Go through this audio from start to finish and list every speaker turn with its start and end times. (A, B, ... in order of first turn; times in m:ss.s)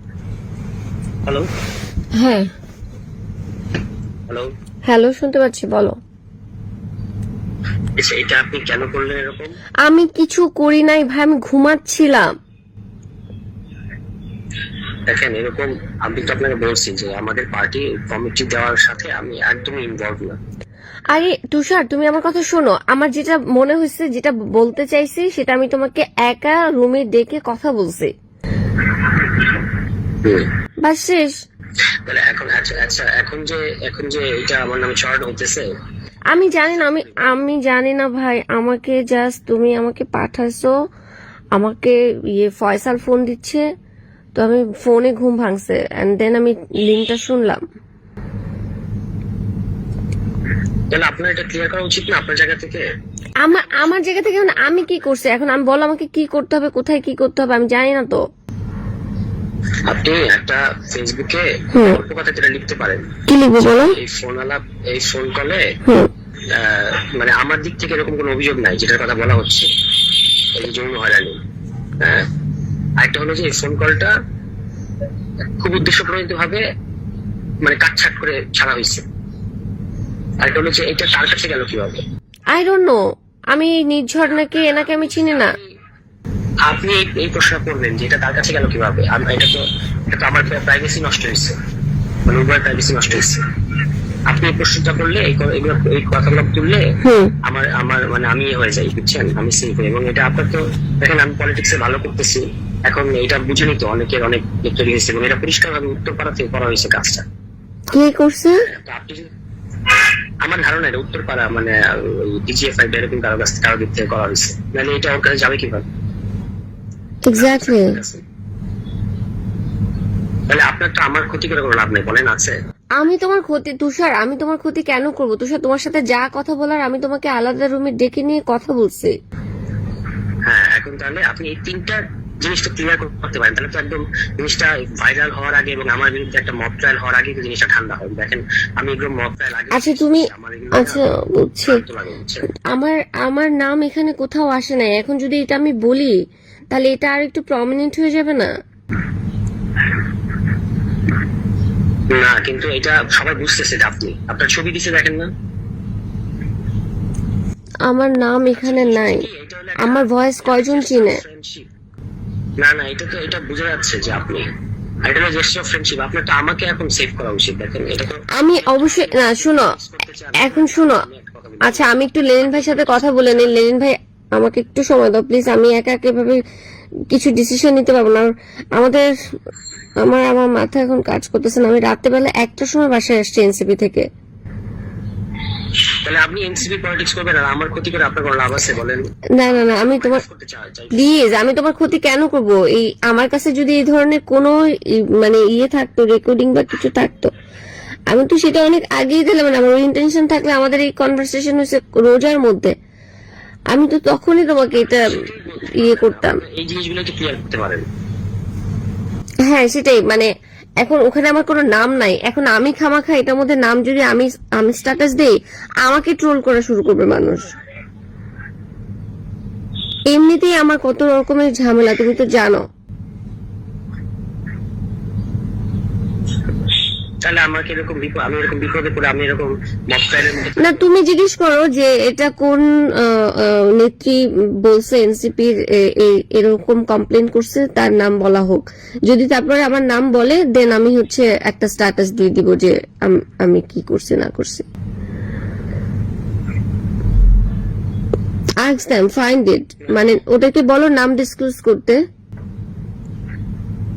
0:02.2-0:02.5 A
0:04.9-0:06.0 A
0:08.0-0:09.5 B
0:09.8-0:12.3 A
0:15.1-0:20.4 B
0:21.1-0:28.1 A
0:30.8-0:31.4 A
0:32.1-0:35.7 B
0:36.3-0:40.7 A
0:36.4-0:37.4 B
0:41.6-0:43.6 A
0:44.4-0:47.6 A
0:50.9-0:52.8 B
0:53.4-0:58.2 A
0:59.9-1:03.0 B
1:01.7-1:02.0 A
1:03.3-1:04.0 A
1:03.6-1:05.6 B
1:06.5-1:09.7 B
1:10.6-1:11.4 B
1:12.0-1:12.3 B
1:13.0-1:14.1 B
1:15.6-1:16.6 B
1:17.6-1:19.0 B
1:20.4-1:22.0 B
1:22.6-1:23.0 A
1:23.5-1:25.6 A
1:24.6-1:25.7 B
1:26.7-1:31.5 B
1:32.3-1:33.4 B
1:34.3-1:36.8 B
1:37.0-1:37.3 A
1:37.4-1:47.2 B
1:47.9-1:48.6 A
1:48.7-1:49.2 B
1:50.4-1:55.8 B
1:57.3-1:57.9 A
1:57.3-1:58.2 B
2:00.5-2:02.5 B
2:03.0-2:09.1 A
2:10.5-2:21.0 B
2:19.7-2:21.8 A
2:21.7-2:22.4 B
2:22.7-2:26.1 A
2:26.7-2:28.5 A
2:32.1-2:35.3 B
2:37.9-2:39.3 A
2:38.5-2:41.7 B
2:39.8-2:41.2 A
2:42.6-2:44.5 B
2:45.0-2:51.9 B
2:48.4-2:49.7 A
2:50.4-2:51.0 A
2:51.6-2:56.4 A
2:52.7-2:53.0 B
2:57.1-2:59.1 A
3:00.0-3:04.1 A
3:06.0-3:11.2 B
3:09.4-3:10.2 A
3:11.0-3:14.6 A
3:15.2-3:17.3 A
3:18.1-3:22.7 A
3:23.7-3:25.2 A
3:25.0-3:27.8 B
3:25.8-3:26.4 A
3:29.5-3:30.3 A
3:30.8-3:37.5 A
3:40.1-3:42.6 A
3:47.2-3:50.6 B
3:50.6-4:04.6 A
4:08.6-4:12.0 A